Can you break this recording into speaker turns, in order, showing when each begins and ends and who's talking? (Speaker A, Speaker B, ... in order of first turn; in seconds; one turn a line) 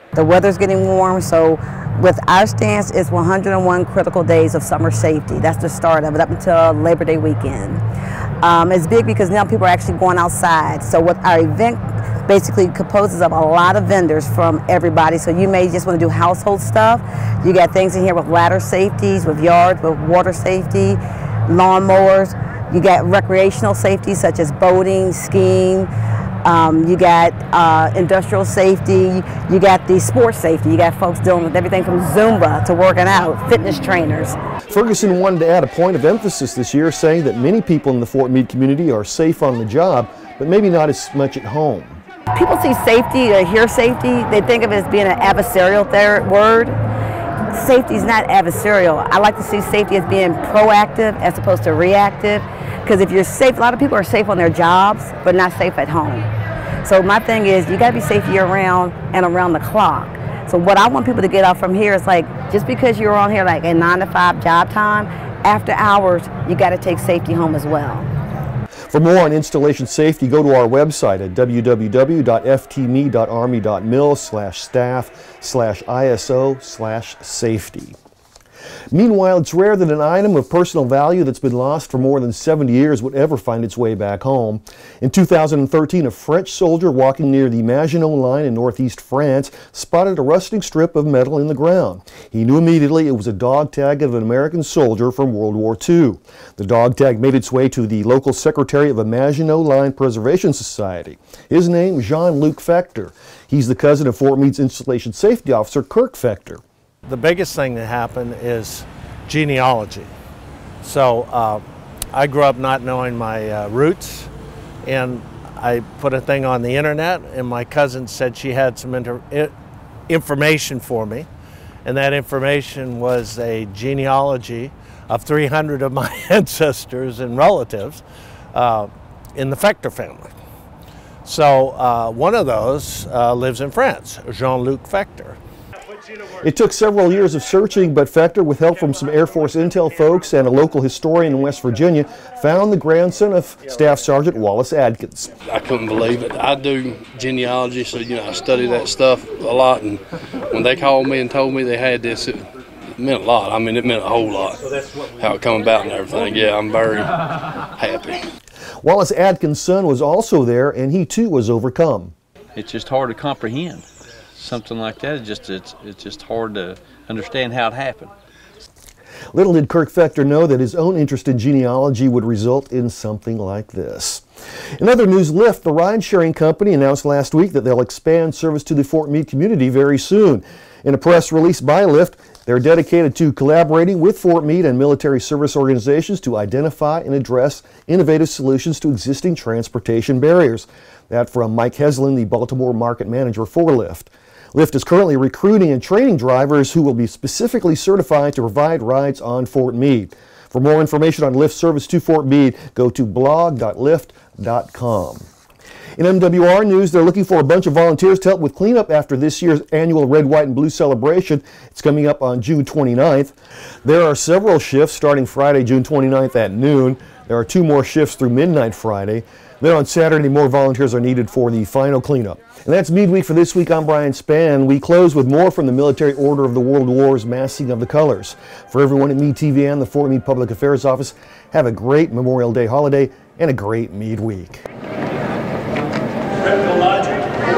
Speaker A: 0.1-7.8
Speaker A: 8.4-25.9
Speaker A: 26.4-34.4
Speaker B: 34.7-42.0
Speaker A: 42.3-46.8
Speaker A: 47.5-56.3
Speaker A: 56.8-68.1
Speaker B: 68.9-77.9
Speaker B: 78.9-106.6
Speaker C: 107.0-110.1
Speaker C: 110.8-114.3
Speaker C: 114.8-119.5
Speaker C: 120.1-121.3
Speaker C: 121.8-128.0
Speaker C: 128.5-130.3
Speaker C: 131.2-135.4
Speaker B: 136.4-145.3
Speaker D: 145.5-158.2
Speaker B: 158.8-162.1
Speaker E: 162.6-163.8
Speaker E: 164.4-168.1
Speaker B: 169.3-174.2
Speaker B: 174.8-205.3
Speaker B: 206.0-234.6